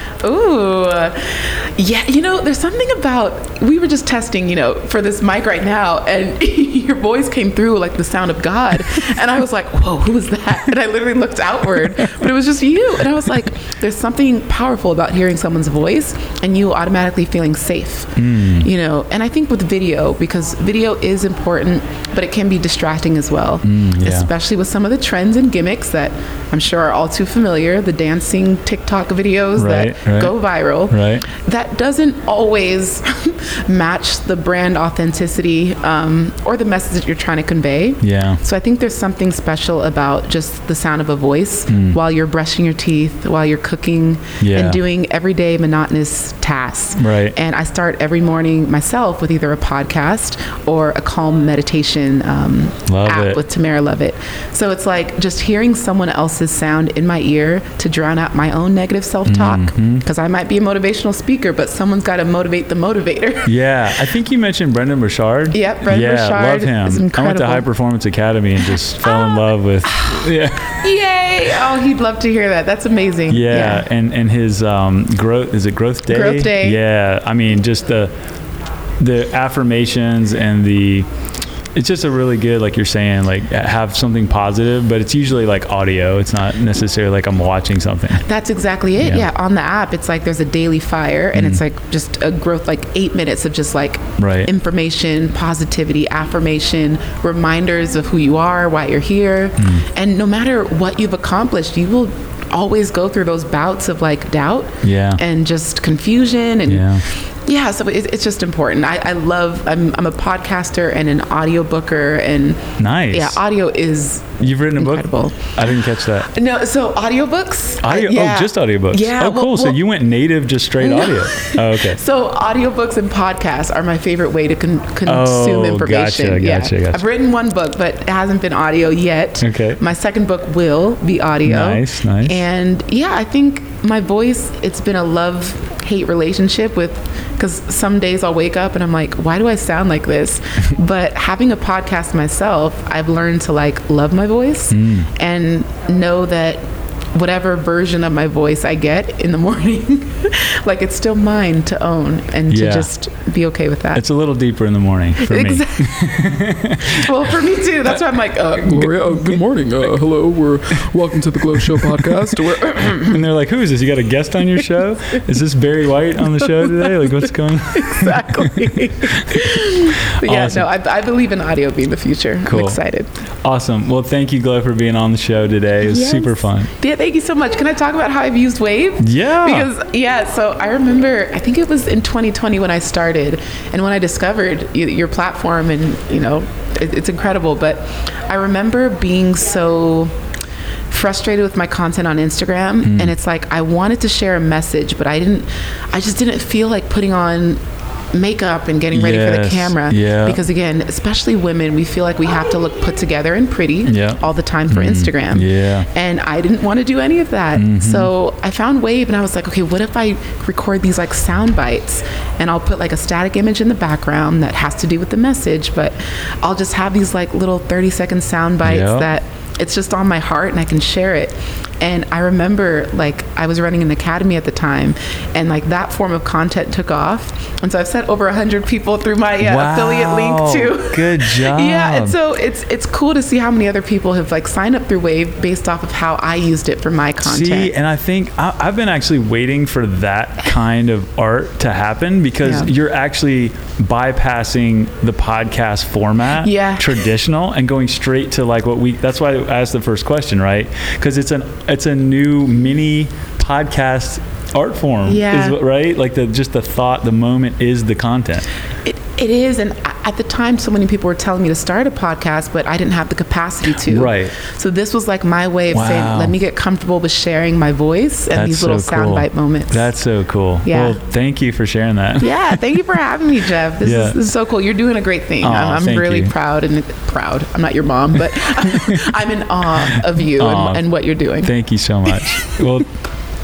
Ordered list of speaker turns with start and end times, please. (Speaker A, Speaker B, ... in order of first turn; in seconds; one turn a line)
Speaker A: 0.2-63.5
Speaker B: 18.2-18.7
Speaker B: 23.6-24.3
Speaker B: 29.6-30.4
Speaker B: 30.9-31.3
Speaker B: 38.0-38.4
Speaker B: 41.7-42.0
Speaker B: 44.4-44.8
Speaker B: 47.0-47.4
Speaker B: 52.9-53.4
Speaker B: 59.3-60.0
Speaker B: 63.5-70.8
Speaker A: 65.5-67.7
Speaker A: 68.7-73.9
Speaker B: 73.3-78.1
Speaker A: 76.1-76.8
Speaker B: 79.0-81.1
Speaker B: 81.8-88.2
Speaker A: 88.2-119.8
Speaker B: 89.0-89.3
Speaker B: 91.3-91.6
Speaker B: 94.2-94.5
Speaker B: 99.6-99.8
Speaker B: 104.8-105.2
Speaker B: 106.7-107.0
Speaker B: 112.8-113.4
Speaker B: 114.4-116.3
Speaker B: 117.8-122.0
Speaker A: 120.8-146.6
Speaker B: 125.1-127.0
Speaker B: 129.4-129.8
Speaker B: 131.4-132.4
Speaker B: 144.7-145.1
Speaker A: 147.1-154.0
Speaker B: 152.5-152.9
Speaker B: 153.9-157.1
Speaker A: 155.2-156.2
Speaker A: 156.8-158.9
Speaker C: 158.6-162.8
Speaker A: 162.5-163.2
Speaker B: 162.8-170.7
Speaker A: 166.6-173.1
Speaker B: 172.4-172.8
Speaker B: 173.4-176.7
Speaker A: 175.8-190.1
Speaker B: 179.0-179.7
Speaker A: 190.9-197.6
Speaker B: 192.8-193.1
Speaker A: 198.1-237.7
Speaker B: 198.9-200.4
Speaker B: 203.9-205.9
Speaker B: 207.6-208.1
Speaker B: 218.6-219.1
Speaker B: 229.4-232.2
Speaker B: 237.2-258.5
Speaker A: 242.4-242.7
Speaker A: 246.4-247.0
Speaker A: 255.0-255.6
Speaker A: 258.9-270.0
Speaker B: 263.8-264.3
Speaker B: 265.7-266.4
Speaker B: 268.3-272.4
Speaker A: 270.6-271.0
Speaker A: 272.2-281.5
Speaker B: 273.8-274.2
Speaker B: 275.4-276.3
Speaker B: 278.7-279.0
Speaker B: 279.9-280.9
Speaker B: 281.4-282.9